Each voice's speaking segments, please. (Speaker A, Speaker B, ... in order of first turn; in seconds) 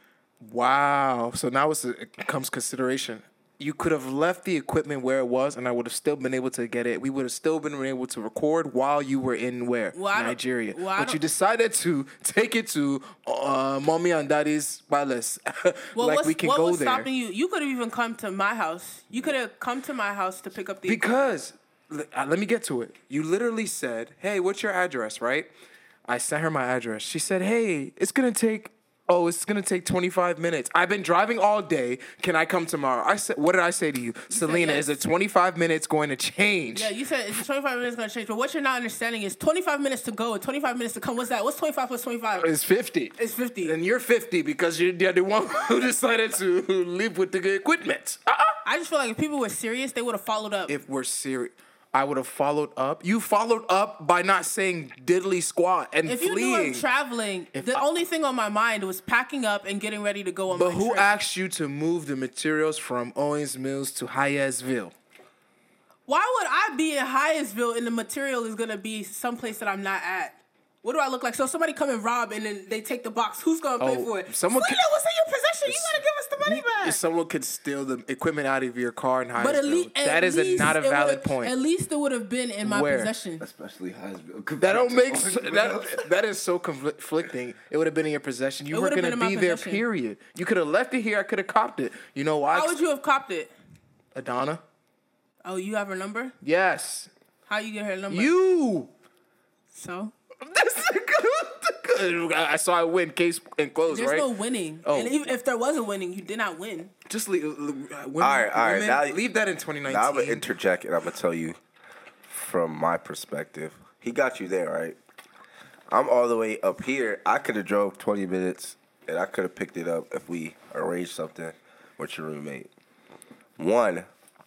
Speaker A: 0.4-17.1, 20.9-25.5, 26.1-36.9, 42.4-48.6, 50.7-56.8, 57.5-57.8, 60.5-64.9, 73.8-74.8, 75.7-81.5, 82.6-83.1, 84.6-92.8, 94.1-94.6, 96.4-97.1, 98.1-98.9, 100.5-104.3, 104.8-105.2, 107.0-110.4
Speaker B: 9.9-11.2, 15.9-21.3, 34.3-34.9, 36.7-42.5, 43.1-43.8, 48.6-50.7, 56.0-61.1, 66.1-77.0, 79.4-83.4, 88.7-89.8, 92.5-93.5, 95.4-96.3, 97.5-98.3, 99.7-100.1, 103.9-106.9
Speaker C: 83.4-86.0, 108.2-109.2, 109.8-111.6, 112.2-115.0, 115.9-122.7, 123.6-124.1